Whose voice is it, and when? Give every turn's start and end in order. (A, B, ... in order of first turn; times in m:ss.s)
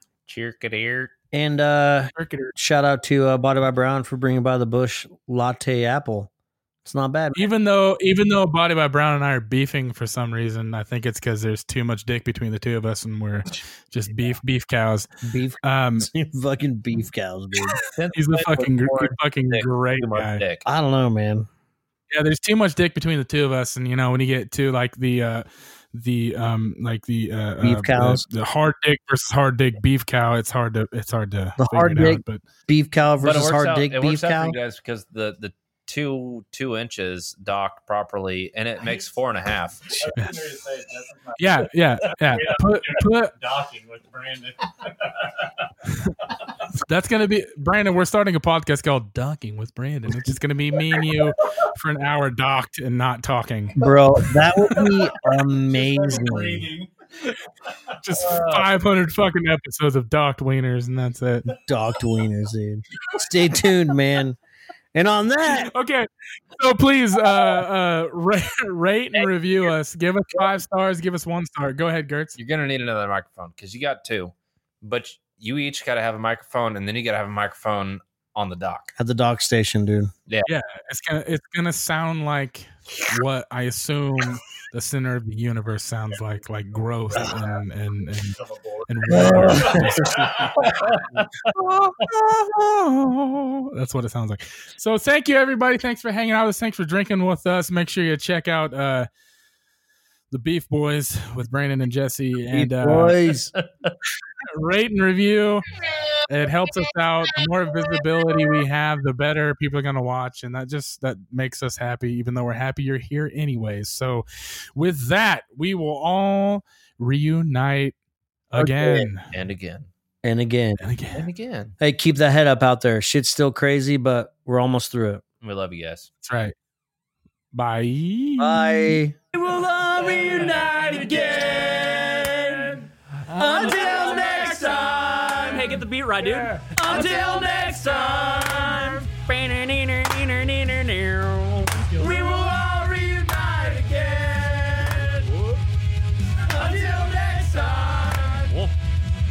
0:00.3-0:01.1 A
0:01.3-0:06.3 B
0:02.2-0:02.5 C
0:06.8-0:07.5 B
0:07.4-0:15.1 C
0:15.2-0:17.8 B
0:15.6-0:16.1 C
0:17.9-0:20.7 A
0:18.1-0:20.4 C
0:20.7-0:21.5 B
0:22.1-0:32.4 C
0:27.6-0:28.2 B
0:31.6-0:34.6 B
0:33.2-0:40.0 A
0:39.9-0:41.7 D
0:41.4-0:43.3 C
0:42.3-0:45.6 D
0:46.8-0:53.8 C
0:53.8-0:56.7 B
0:54.8-0:56.9 D
0:58.0-1:01.5 C
0:58.2-0:58.7 A
1:01.7-1:04.4 B
1:04.9-1:05.7 B
1:05.5-1:12.4 C
1:09.2-1:09.7 A
1:12.4-1:18.9 A
1:19.0-1:20.1 B
1:20.5-1:30.5 C
1:28.4-1:31.0 D
1:29.1-1:30.5 B
1:30.6-1:31.3 A
1:31.5-1:39.1 C
1:40.3-1:43.2 C
1:42.5-1:43.5 B
1:43.6-1:43.9 A
1:44.5-1:45.7 C
1:46.3-1:58.0 C
1:58.5-1:59.3 C
1:58.5-1:59.1 B
1:59.3-1:59.9 A
2:00.2-2:00.8 B
2:00.8-2:01.3 C
2:01.1-2:01.7 A
2:01.8-2:05.2 B
2:05.4-2:06.1 A
2:06.2-2:06.6 C
2:07.5-2:09.0 C
2:08.4-2:09.4 B
2:09.4-2:12.5 E
2:13.4-2:25.3 E
2:13.4-2:14.2 B
2:13.4-2:14.3 D
2:25.2-2:25.6 C
2:26.5-2:28.5 E